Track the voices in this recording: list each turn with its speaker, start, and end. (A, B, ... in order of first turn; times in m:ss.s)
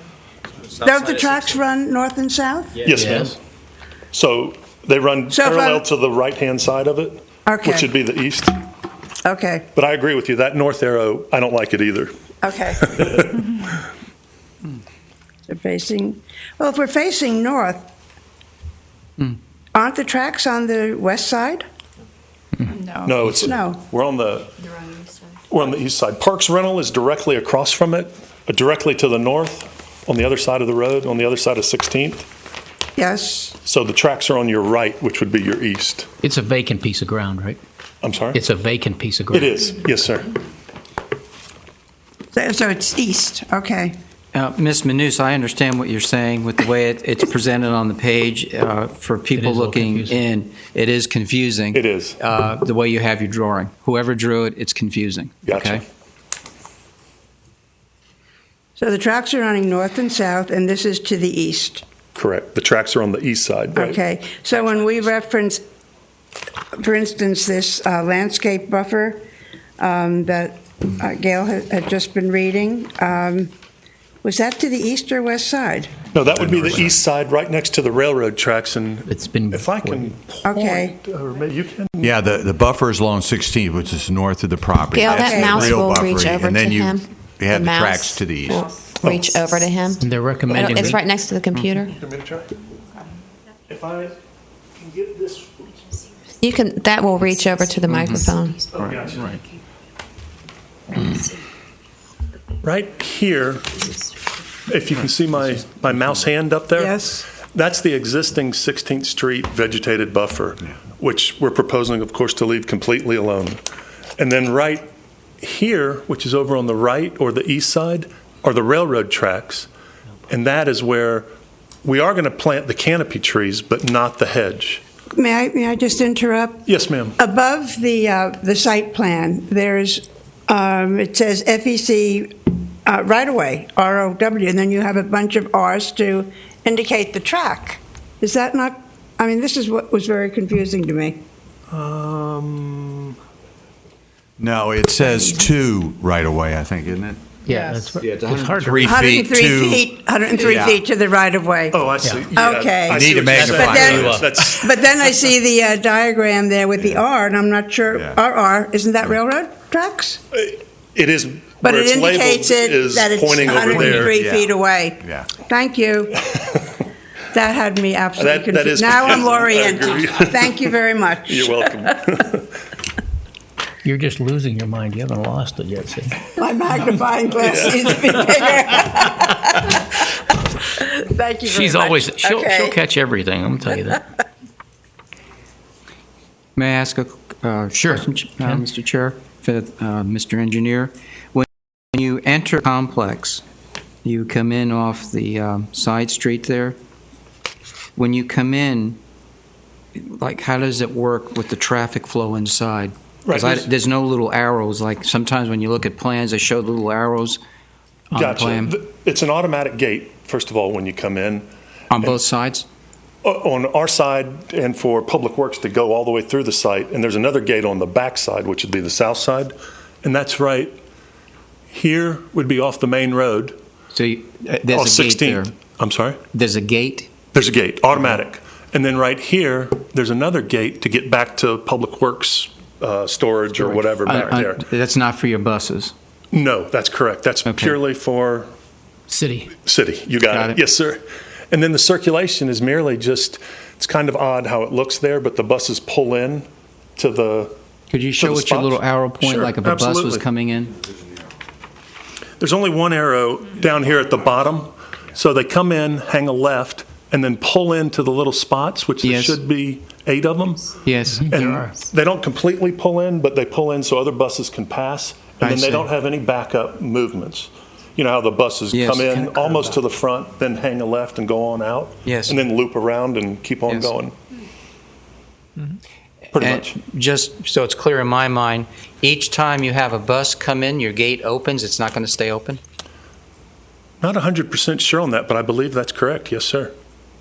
0:00.7-0:01.5 A
0:00.8-0:02.9 B
0:02.8-0:03.4 C
0:03.0-0:03.4 D
0:04.1-0:08.6 C
0:05.3-0:05.8 B
0:07.5-0:07.9 B
0:09.2-0:09.7 B
0:09.8-0:12.1 C
0:12.4-0:13.0 B
0:12.8-0:13.8 C
0:15.5-0:17.9 B
0:19.7-0:21.7 B
0:23.0-0:24.5 C
0:23.4-0:23.8 B
0:25.5-0:32.3 C
0:33.0-0:33.6 B
0:33.6-0:36.1 C
0:36.2-0:37.6 D
0:38.0-0:38.4 C
0:38.3-0:39.6 D
0:39.3-0:40.3 C
0:42.3-0:44.0 B
0:44.3-0:55.8 A
0:49.3-0:50.2 D
0:51.7-0:52.2 C
0:55.5-0:55.8 C
0:58.8-1:01.8 B
1:02.2-1:04.0 C
1:03.8-1:05.6 B
1:06.7-1:09.2 B
1:09.8-1:13.5 B
1:14.2-1:15.9 B
1:16.1-1:22.2 C
1:19.1-1:20.1 D
1:20.4-1:21.0 B
1:22.0-1:28.7 E
1:24.9-1:30.0 F
1:25.1-1:25.7 B
1:29.0-1:29.6 C
1:30.0-1:31.0 D
1:30.5-1:30.9 C
1:30.5-1:32.0 F
1:31.9-1:32.5 C
1:33.7-1:34.2 C
1:34.8-1:35.8 C
1:36.4-1:38.7 F
1:37.9-1:38.9 A
1:38.7-1:39.4 C
1:42.6-1:43.9 C
1:44.7-1:53.6 C
1:46.8-1:47.3 B
1:54.2-1:54.9 C
1:55.4-1:59.7 C
2:00.3-2:01.3 C
2:01.8-2:04.8 C
2:05.2-2:12.3 B
2:06.7-2:07.2 C
2:12.8-2:21.2 B
2:21.7-2:23.2 C
2:24.4-2:27.2 E
2:27.5-2:28.9 D
2:27.5-2:28.6 A
2:28.6-2:30.8 E
2:28.8-2:40.2 B
2:31.7-2:35.0 C
2:32.9-2:34.2 E
2:33.3-2:34.3 D
2:40.3-2:44.2 C
2:41.6-2:46.4 B
2:44.1-2:44.5 E
2:47.3-2:52.0 B
2:48.2-2:50.6 C
2:51.3-2:52.5 C
2:53.8-2:56.2 D
2:56.4-3:00.0 B
2:57.4-2:58.3 C
3:00.7-3:02.8 B
3:01.5-3:04.0 D
3:06.6-3:13.4 A
3:07.8-3:08.6 D
3:14.0-3:16.8 A
3:18.0-3:19.0 A
3:20.0-3:27.4 A
3:23.3-3:23.7 C
3:28.1-3:28.8 A
3:28.1-3:32.3 C
3:31.9-3:32.7 A
3:33.2-3:40.8 C
3:41.7-3:43.6 C
3:43.9-3:45.6 A
3:44.7-3:46.2 C
3:46.3-3:47.1 A
3:47.3-3:54.6 C
3:53.6-3:55.9 A
3:56.3-3:58.5 C
3:57.5-3:57.8 A
3:59.1-3:59.5 D
3:59.6-4:07.6 C
4:00.3-4:00.6 A
4:07.9-4:10.7 A
4:08.1-4:10.2 C
4:12.4-4:34.2 C
4:19.0-4:19.4 A
4:20.8-4:21.3 A
4:21.1-4:21.7 D
4:25.4-4:25.9 A
4:28.7-4:29.8 A
4:32.0-4:32.4 A
4:33.7-4:33.9 A
4:36.3-4:36.8 C
4:36.4-4:42.6 A
4:44.0-4:46.7 C